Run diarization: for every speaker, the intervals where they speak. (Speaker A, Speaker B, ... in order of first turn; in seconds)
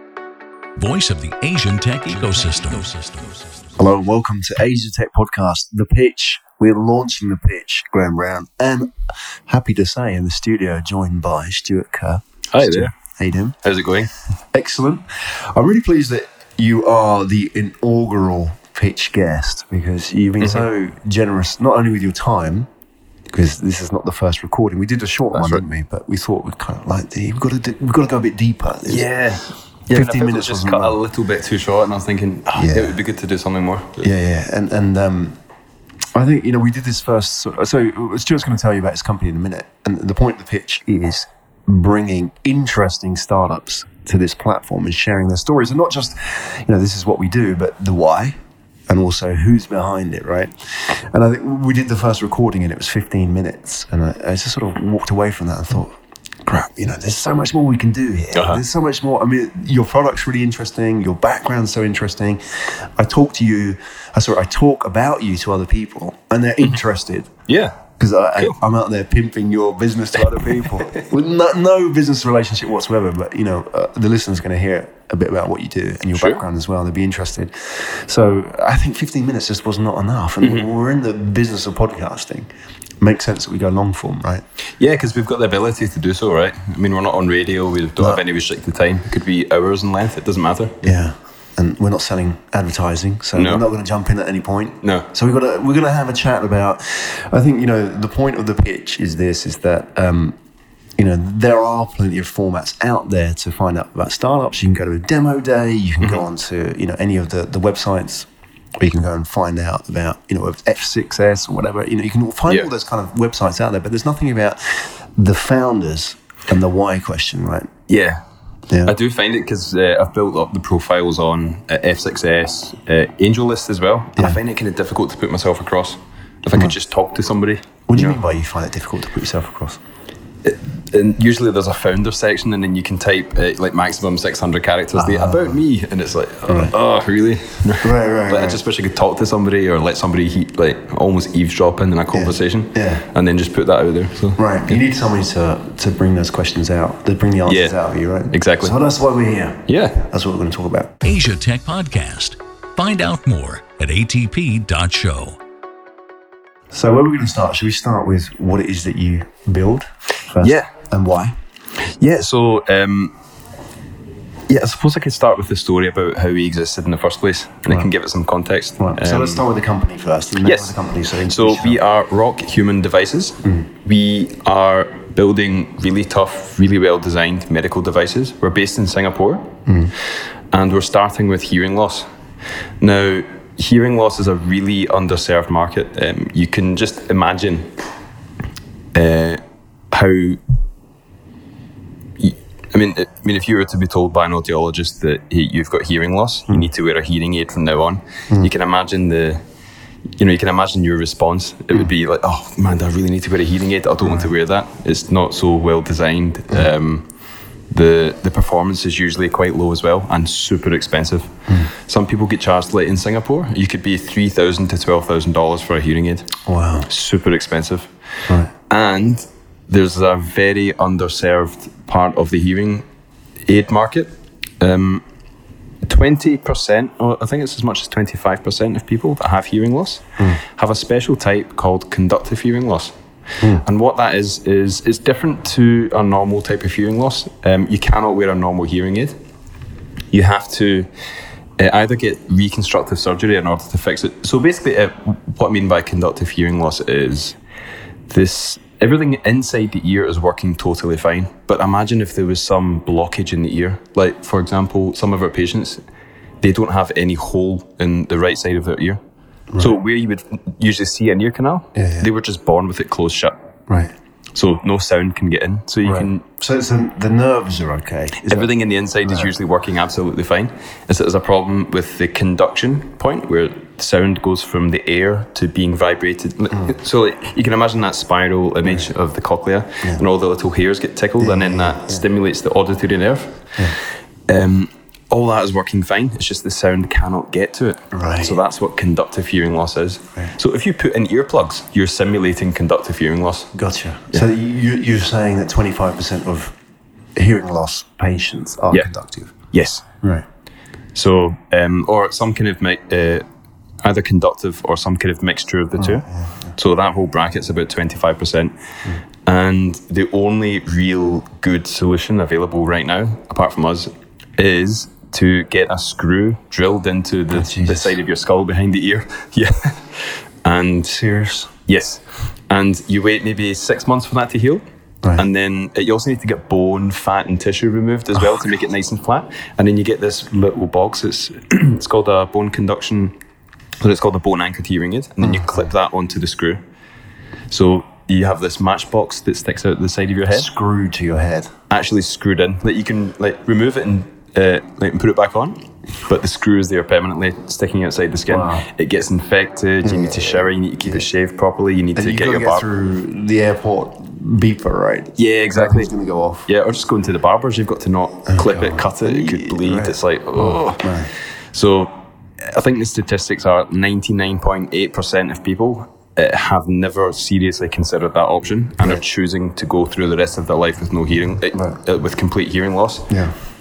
Speaker A: 0.8-3.5, 151.0-155.4
Speaker B: 3.8-8.9, 9.5-13.6, 14.5-22.7, 23.3-29.1, 29.9-31.0, 32.5-33.0, 34.0-35.4, 36.1-48.4, 48.9-67.3, 68.0-82.5, 83.0-84.4, 90.8-100.3, 101.0-117.7, 127.9-129.8, 134.9-135.6, 136.5-136.7, 137.8-138.6, 142.1-143.0, 144.4-151.0, 156.7-161.3, 168.8-171.8, 179.7-179.9, 204.0-204.3, 216.4-216.9, 261.7-262.1, 263.7-263.9, 265.8-268.5, 269.0-269.3, 281.2-282.0, 287.9-288.4, 293.5-296.5, 297.1-299.3, 305.8-306.5, 317.3-317.9, 320.9-321.5, 335.2-335.7, 340.3-341.5, 348.3-348.7, 349.8-351.0, 351.9-356.5, 358.3-361.1
Speaker C: 12.5-12.9, 13.6-14.1, 20.4-20.7, 25.3-25.6, 28.9-34.1, 58.3-58.6, 67.5-67.8, 70.4-71.1, 76.1-76.4, 80.4-80.7, 84.8-91.0, 93.3-93.6, 94.8-95.1, 117.9-118.2, 118.8-128.2, 130.4-144.8, 147.5-147.8, 148.3-148.8, 149.7-150.0, 160.4-160.7, 161.8-163.1, 164.5-169.4, 170.4-170.7, 171.2-179.6, 180.5-182.1, 182.8-187.7, 188.9-189.4, 189.9-190.4, 192.2-199.4, 200.2-207.1, 207.7-216.3, 216.8-217.9, 218.7-222.8, 223.4-225.0, 225.8-232.9, 233.5-239.1, 240.1-240.9, 241.6-247.4, 248.1-255.8, 256.4-259.0, 259.6-263.4, 264.3-266.2, 268.2-283.4, 284.3-293.5, 299.5-299.9, 300.9-303.2, 303.8-308.5, 309.2-321.0, 321.6-324.6, 325.1-333.1, 333.8-336.6, 337.5-340.5, 341.7-352.6, 355.2-355.9, 356.4-360.9, 361.5-373.1